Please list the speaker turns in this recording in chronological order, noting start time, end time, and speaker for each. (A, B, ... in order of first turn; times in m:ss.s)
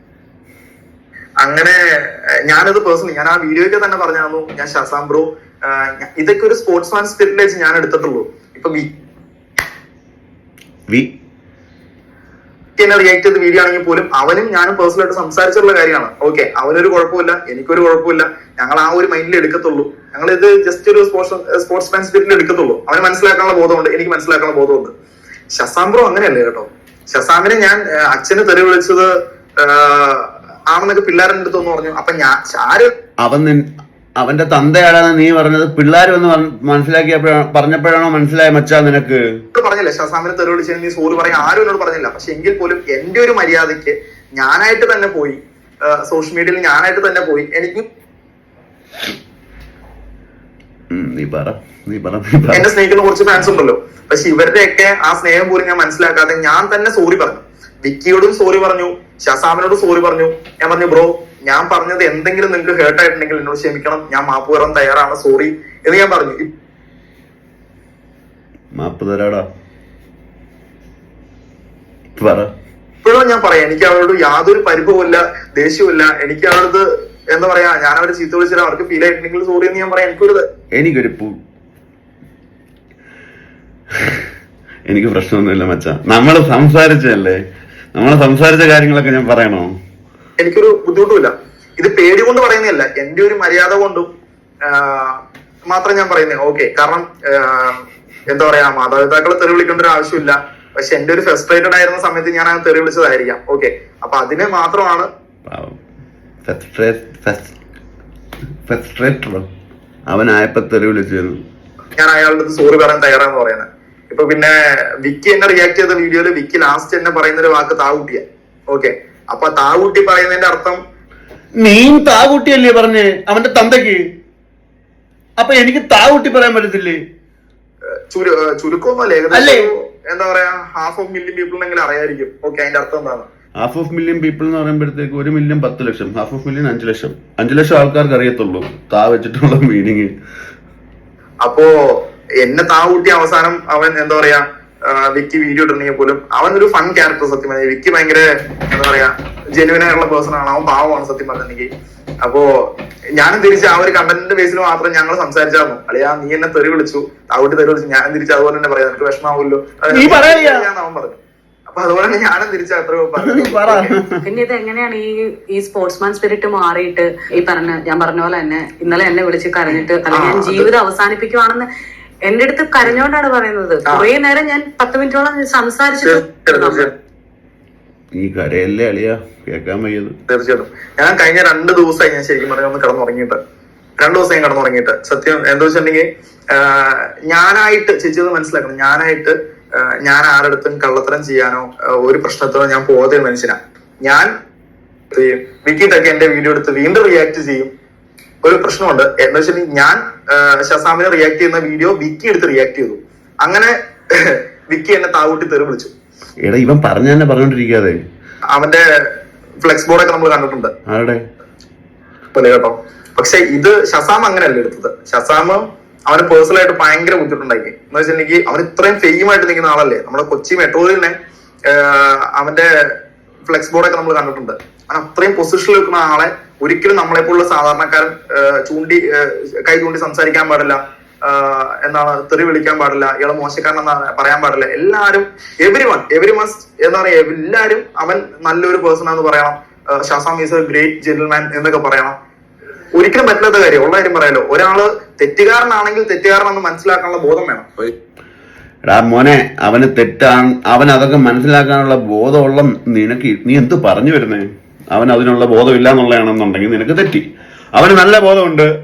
0:01.4-0:08.9 A
0:12.8-0:24.9 A
0:25.5-0:32.9 A
0:33.2-0:33.6 B
0:34.2-0:39.2 B
0:39.5-0:47.8 A
0:50.9-0:52.7 B
0:52.5-1:06.5 A
1:08.7-1:09.5 B
1:12.2-1:12.5 B
1:13.0-1:20.4 A
1:20.8-1:21.4 B
1:24.9-1:27.4 B
1:28.0-1:29.7 B
1:30.4-1:34.1 A
1:34.6-1:45.1 A
1:45.5-1:45.8 B
1:46.4-1:47.6 B
1:48.7-1:49.5 B
1:50.1-1:51.4 B
1:52.0-2:00.8 A
2:01.6-2:04.0 B
2:05.4-2:07.0 B
2:08.1-2:13.3 A
2:09.3-2:09.7 B
2:13.6-2:20.1 B
2:21.4-2:31.7 A
2:33.2-2:41.2 A
2:39.9-2:40.7 B
2:41.7-2:44.0 A
2:43.2-2:44.2 B
2:44.2-2:51.7 C
2:50.1-2:50.7 A
2:52.2-2:56.9 C
2:56.0-2:56.9 A
2:58.2-3:00.2 B
3:00.3-3:03.4 A
3:04.0-3:14.3 A
3:15.1-3:17.7 A
3:18.4-3:25.9 A
3:26.4-3:28.0 B
3:28.5-3:28.8 A
3:29.6-3:30.7 A
3:30.9-3:31.2 B
3:32.3-3:41.1 A
3:41.7-3:43.0 A
3:43.5-4:02.2 A
4:02.9-4:07.7 A
4:08.9-4:18.7 B